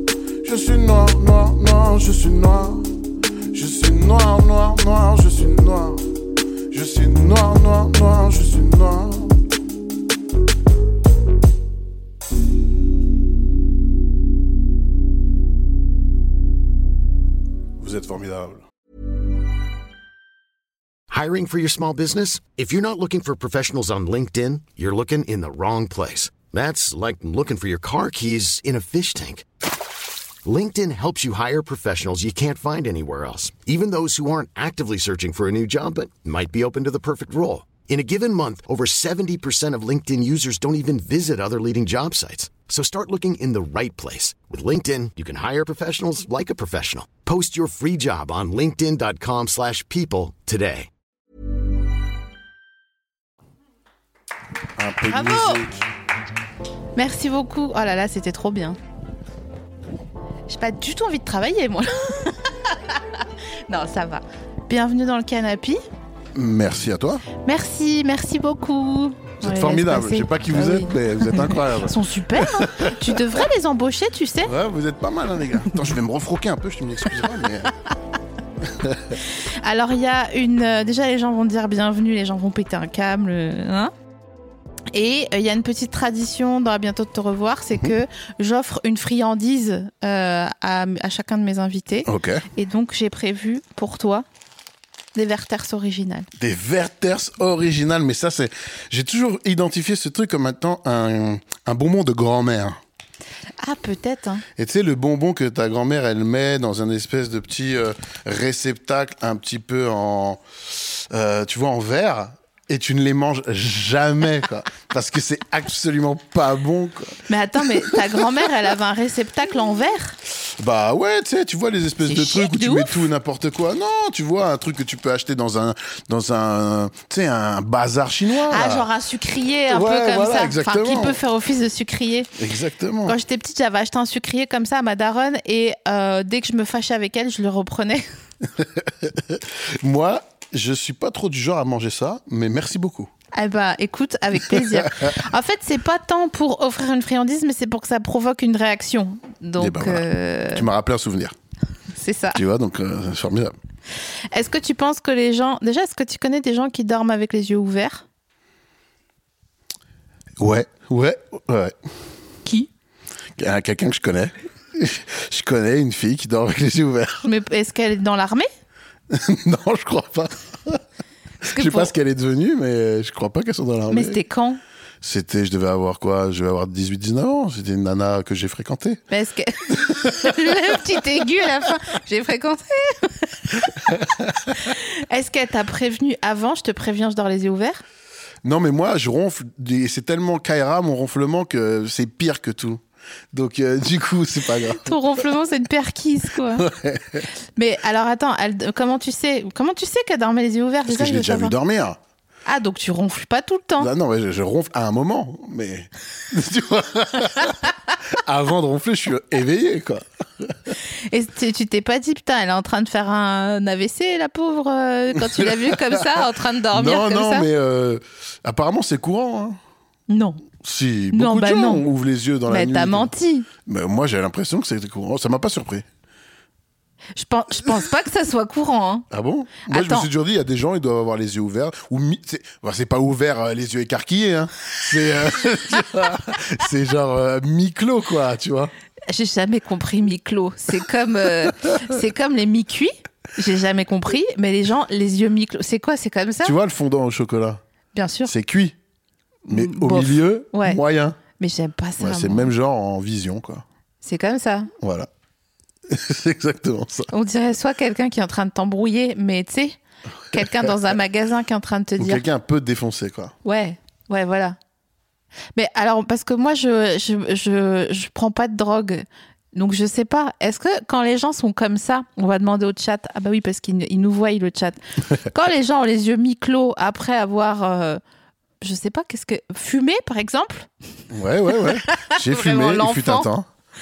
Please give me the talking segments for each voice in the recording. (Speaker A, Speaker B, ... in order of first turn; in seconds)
Speaker A: 0.4-9.4, 17.8-18.6, 54.8-55.8, 66.3-67.2, 69.4-73.2, 74.4-77.7, 78.6-79.2, 92.0-92.5, 96.4-102.8, 104.5-117.2, 117.7-118.2, 120.4-128.9, 129.7-131.2, 132.4-133.2, 138.5-143.1, 144.5-145.2, 149.6-151.3, 152.3-153.5, 160.4-161.8, 163.4-167.3, 169.1-170.8, 171.4-174.2, 175.0-179.0, 179.7-180.4, 183.9-184.5, 188.4-192.8, 193.3-195.0, 196.6-197.3, 200.9-202.0, 203.8-210.8, 215.2-219.6, 220.6-223.1, 223.6-225.8, 229.1-238.7, 246.4-247.6, 248.2-248.8, 249.5-251.2, 252.0-253.6, 254.8-255.1, 255.9-257.1, 260.3-260.7, 262.0-263.4, 281.1-283.5
Speaker B: 21.1-29.4, 30.4-50.9
Speaker C: 55.1-55.6, 57.0-58.8, 60.5-65.8, 67.4-74.5, 79.2-83.9, 84.9-94.2, 95.1-96.3, 103.6-104.4, 117.3-120.2, 122.0-123.0, 128.5-132.3, 133.1-138.1, 143.3-150.7, 152.0-152.4, 154.3-158.0, 167.2-168.5, 171.4-171.9, 173.9-174.6, 179.1-183.8, 184.6-187.8, 194.8-196.7, 197.6-201.5, 202.4-203.9, 211.1-217.5, 220.1-220.4, 221.1-221.8, 222.5-223.5, 227.2-229.1, 229.6-230.1, 239.1-246.6, 247.9-248.3, 249.5-250.8, 251.4-252.5, 254.0-254.7, 257.1-259.8, 260.3-262.2, 263.4-264.6, 265.5-278.0, 278.6-280.7, 281.5-283.3